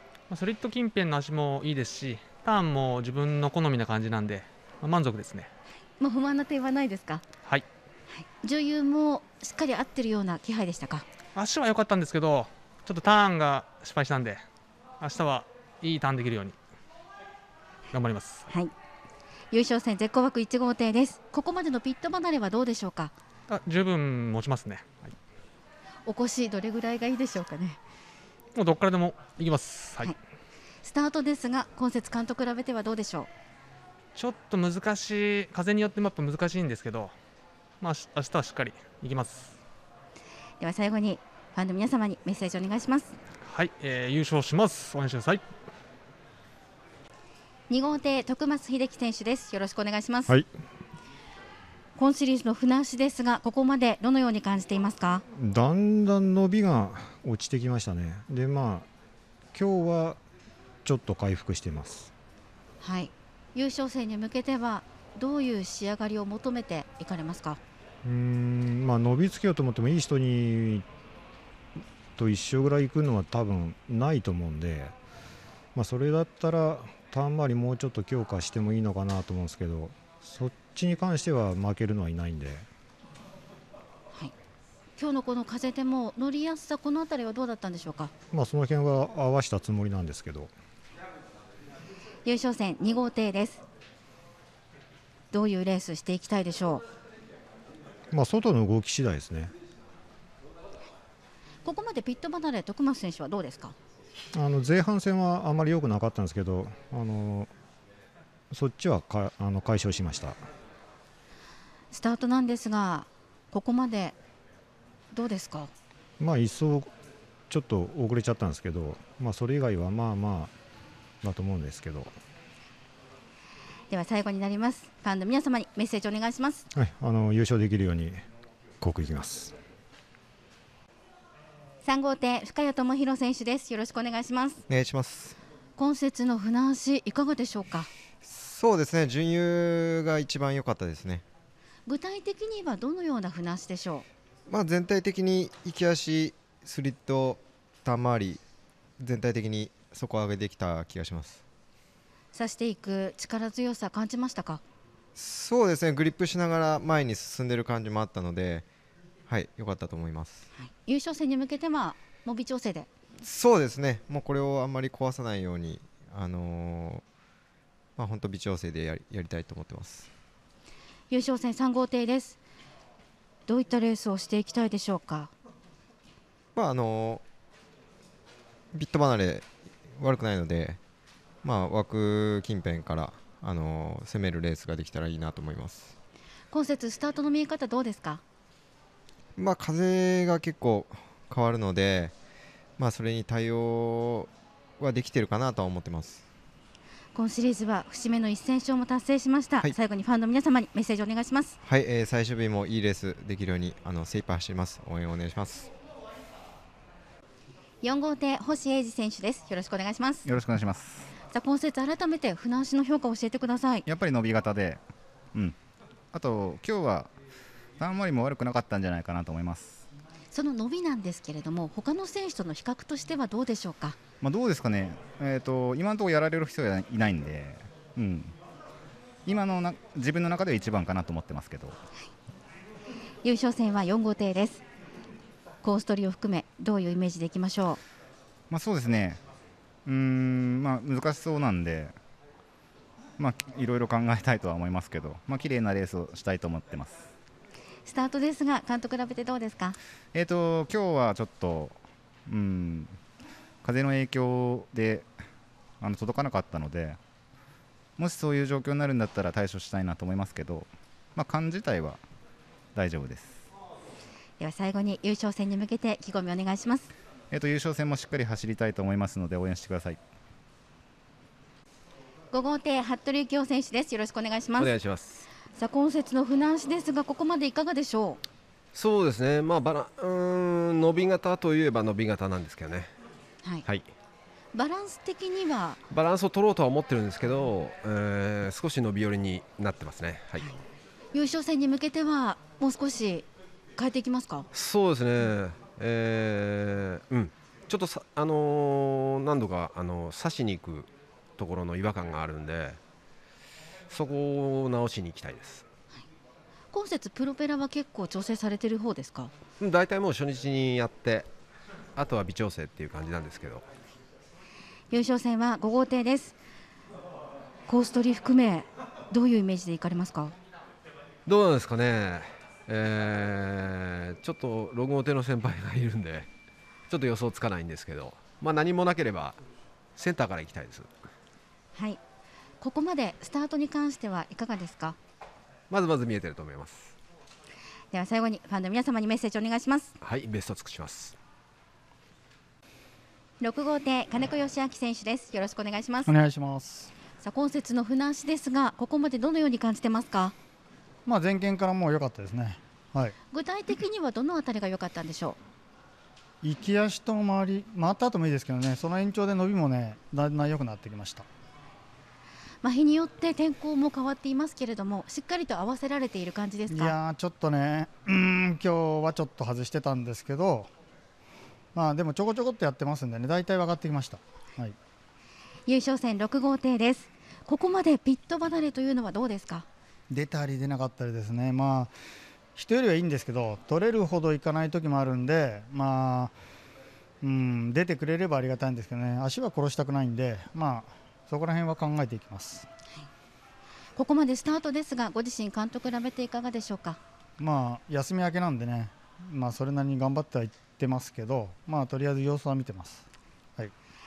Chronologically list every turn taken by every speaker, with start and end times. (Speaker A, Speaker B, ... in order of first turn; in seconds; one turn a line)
Speaker A: 0.3-5.5
Speaker B: 6.0-7.2
Speaker B: 8.1-11.1
Speaker A: 11.3-14.4
Speaker A: 15.0-16.6
Speaker A: 17.9-18.5
Speaker B: 19.5-23.1
Speaker A: 23.5-25.1
Speaker B: 26.1-27.8
Speaker A: 28.5-30.1
Speaker B: 30.8-33.3
Speaker A: 34.1-37.1
Speaker A: 37.8-39.5
Speaker B: 40.6-43.1
Speaker A: 43.4-45.4
Speaker B: 47.7-50.3
Speaker B: 52.0-55.2
Speaker C: 55.3-58.9
Speaker C: 59.5-60.2
Speaker C: 60.8-62.1
Speaker B: 62.8-67.6
Speaker C: 68.0-70.8
Speaker C: 72.2-74.9
Speaker C: 75.7-82.7
Speaker B: 85.0-88.1
Speaker C: 88.3-90.5
Speaker B: 92.2-93.6
Speaker B: 95.3-96.8
Speaker C: 98.1-99.5
Speaker B: 101.6-103.8
Speaker C: 104.3-107.5
Speaker C: 108.5-110.4
Speaker B: 111.9-114.2
Speaker B: 115.1-115.7
Speaker C: 116.2-116.9
Speaker C: 117.5-120.5
Speaker C: 121.2-122.1
Speaker B: 123.9-126.6
Speaker C: 126.7-128.2
Speaker C: 128.8-129.5
Speaker B: 131.8-134.6
Speaker D: 134.7-135.4
Speaker B: 135.8-137.9
Speaker D: 138.2-141.2
Speaker B: 141.9-144.1
Speaker D: 144.5-148.4
Speaker D: 149.0-151.4
Speaker B: 152.3-154.6
Speaker D: 155.1-158.7
Speaker D: 159.3-160.4
Speaker B: 160.6-162.9
Speaker D: 163.2-167.0
Speaker D: 168.0-170.1
Speaker B: 171.1-172.4
Speaker B: 173.5-175.3
Speaker D: 176.5-177.2
Speaker D: 178.7-180.8
Speaker D: 181.4-185.9
Speaker B: 186.5-188.2
Speaker D: 189.3-192.1
Speaker D: 192.8-196.2
Speaker B: 197.1-201.6
Speaker D: 201.6-205.7
Speaker B: 207.8-210.3
Speaker E: 210.3-211.1
Speaker B: 211.3-213.8
Speaker E: 213.8-214.8
Speaker E: 216.1-217.1
Speaker E: 217.8-219.8
Speaker B: 220.3-224.0
Speaker E: 224.2-228.3
Speaker E: 229.2-231.8
Speaker B: 233.2-234.6
Speaker B: 235.6-237.8
Speaker E: 238.5-239.2
Speaker E: 239.8-241.9
Speaker E: 243.2-247.0
Speaker B: 247.8-249.8
Speaker E: 250.1-252.9
Speaker E: 253.6-255.1
Speaker E: 255.8-257.0
Speaker E: 258.0-262.0
Speaker E: 262.7-263.4
Speaker B: 264.4-266.9
Speaker E: 267.3-270.0
Speaker B: 272.3-274.7
Speaker F: 274.6-275.2
Speaker B: 275.5-278.2
Speaker F: 278.7-282.9
Speaker B: 284.5-285.8
Speaker F: 285.9-290.4
Speaker B: 291.1-294.5
Speaker F: 294.5-302.8
Speaker F: 303.9-305.6
Speaker B: 306.7-309.3
Speaker F: 309.6-311.3
Speaker F: 311.9-313.6
Speaker B: 314.9-316.4
Speaker B: 317.7-320.3
Speaker F: 321.3-326.3
Speaker F: 326.9-329.4
Speaker F: 330.0-330.9
Speaker B: 331.7-332.0
Speaker B: 332.6-335.0
Speaker F: 335.7-336.9
Speaker B: 337.9-339.9
Speaker F: 340.0-341.1
Speaker B: 343.4-346.1
Speaker G: 346.1-346.9
Speaker B: 347.2-350.3
Speaker G: 351.1-353.1
Speaker B: 353.3-355.4
Speaker G: 356.4-361.3
Speaker B: 362.6-366.9
Speaker G: 366.7-370.7
Speaker G: 371.7-374.8
Speaker B: 375.7-379.6
Speaker G: 380.1-381.9
Speaker G: 382.5-386.3
Speaker G: 387.2-392.7
Speaker B: 393.9-397.0
Speaker G: 397.4-403.1